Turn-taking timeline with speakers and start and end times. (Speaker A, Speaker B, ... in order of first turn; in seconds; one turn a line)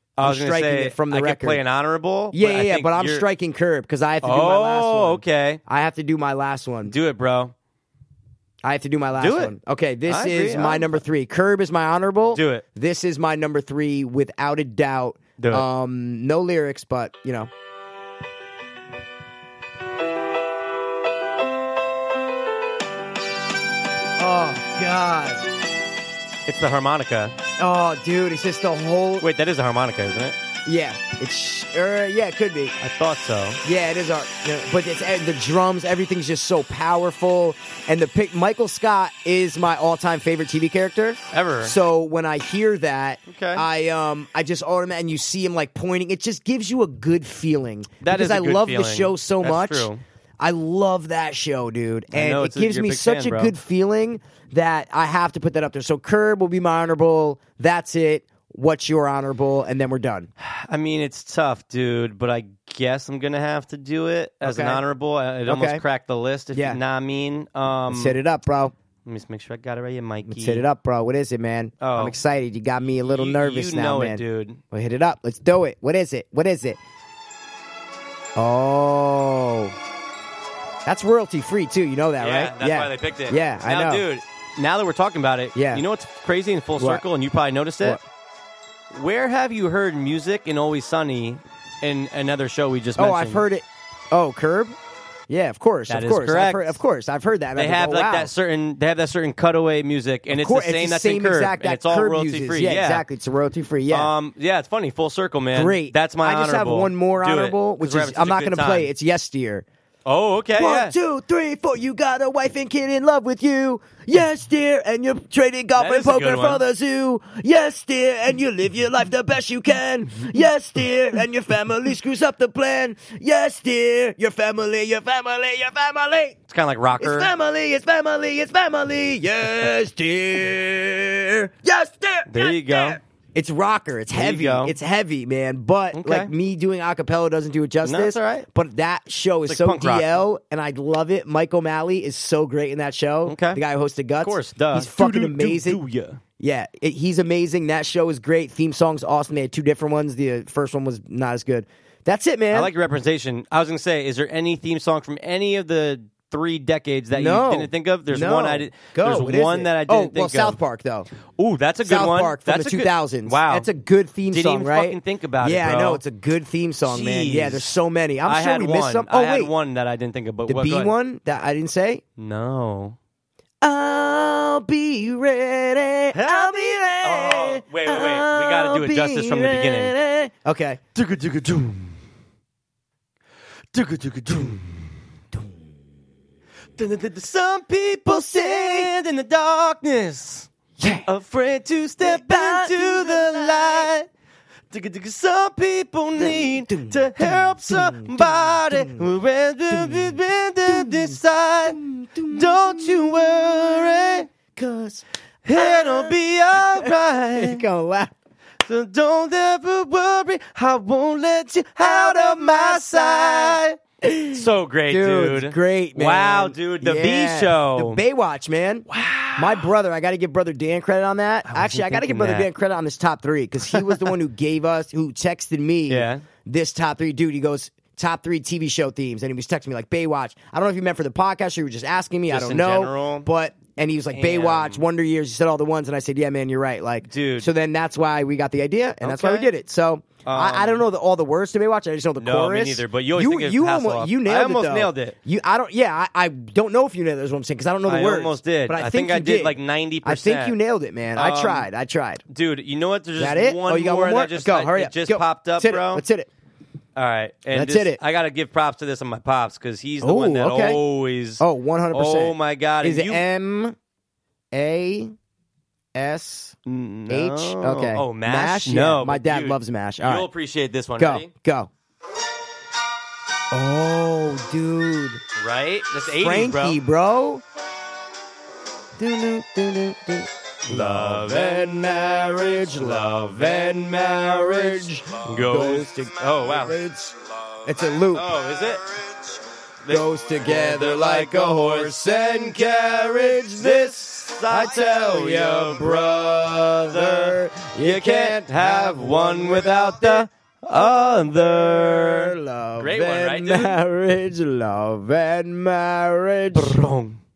Speaker A: 0.2-3.2
Speaker B: 0.2-1.6
Speaker B: 2.3-6.9
Speaker A: 4.2-5.6
Speaker A: 6.9-7.5
Speaker B: 8.6-17.5
Speaker A: 9.2-9.5
Speaker A: 10.1-11.0
Speaker A: 12.3-12.6
Speaker A: 15.4-15.7
Speaker B: 24.2-25.4
Speaker A: 26.4-27.4
Speaker B: 27.6-29.3
Speaker A: 29.2-30.4
Speaker B: 30.6-32.8
Speaker A: 32.8-33.6
Speaker B: 33.6-49.9
Speaker A: 41.3-41.8
Speaker A: 43.3-43.6
Speaker A: 48.0-50.0
Speaker B: 50.4-60.3
Speaker A: 52.1-53.5
Speaker A: 60.4-68.2
Speaker B: 64.4-64.8
Speaker B: 65.5-65.8
Speaker B: 66.5-66.8
Speaker B: 67.9-68.7
Speaker A: 69.0-70.6
Speaker B: 70.3-76.8
Speaker A: 71.8-72.2
Speaker A: 73.0-74.6
Speaker B: 78.3-79.7
Speaker B: 80.8-84.0
Speaker A: 82.2-88.0
Speaker B: 85.5-85.8
Speaker B: 86.8-87.0
Speaker A: 88.9-93.4
Speaker B: 93.0-94.7
Speaker B: 95.3-98.3
Speaker A: 95.9-96.8
Speaker A: 97.5-103.0
Speaker B: 100.3-104.1
Speaker A: 103.9-108.9
Speaker B: 105.5-109.6
Speaker A: 110.0-110.9
Speaker B: 110.5-126.4
Speaker A: 115.8-116.6
Speaker A: 126.5-127.3
Speaker B: 127.0-145.8
Speaker A: 132.3-133.0
Speaker A: 134.1-134.7
Speaker A: 135.9-136.3
Speaker A: 137.8-138.5
Speaker A: 139.5-140.2
Speaker A: 143.2-143.6
Speaker A: 144.2-146.2
Speaker B: 146.4-152.7
Speaker A: 152.5-160.6
Speaker B: 157.1-161.1
Speaker A: 161.4-163.7
Speaker B: 161.8-169.5
Speaker A: 164.3-166.0
Speaker A: 166.8-170.9
Speaker B: 170.4-172.0
Speaker A: 172.2-173.0
Speaker B: 173.6-180.8
Speaker A: 176.1-179.9
Speaker A: 180.9-181.9
Speaker A: 183.7-184.9
Speaker A: 186.8-194.1
Speaker B: 188.1-188.9
Speaker B: 190.8-191.1
Speaker B: 192.0-193.9
Speaker A: 194.7-204.3
Speaker B: 196.2-199.1
Speaker B: 199.7-208.1
Speaker A: 205.4-207.6
Speaker A: 208.6-218.0
Speaker B: 211.8-252.2
Speaker A: 218.9-219.7
Speaker A: 221.4-222.5
Speaker A: 223.7-224.2
Speaker A: 225.9-226.2
Speaker A: 232.3-233.3
Speaker A: 234.1-234.8
Speaker A: 237.1-237.5
Speaker A: 239.0-239.5
Speaker A: 240.2-240.8
Speaker A: 242.2-245.1
Speaker A: 247.8-250.6
Speaker A: 251.1-251.7
Speaker A: 252.3-256.0
Speaker B: 253.2-256.3
Speaker A: 256.9-263.2
Speaker B: 257.5-258.0
Speaker B: 260.0-260.8
Speaker B: 261.4-263.7
Speaker B: 264.5-265.1
Speaker B: 265.9-266.6
Speaker A: 266.6-271.3
Speaker B: 267.1-270.3
Speaker B: 271.0-271.7
Speaker B: 273.5-275.2
Speaker A: 275.4-276.8
Speaker B: 276.2-277.4
Speaker B: 279.0-288.3
Speaker A: 280.6-283.8
Speaker A: 285.2-286.8
Speaker A: 288.1-289.0
Speaker A: 289.8-303.8
Speaker B: 289.9-300.3
Speaker B: 301.0-306.8
Speaker A: 306.5-307.2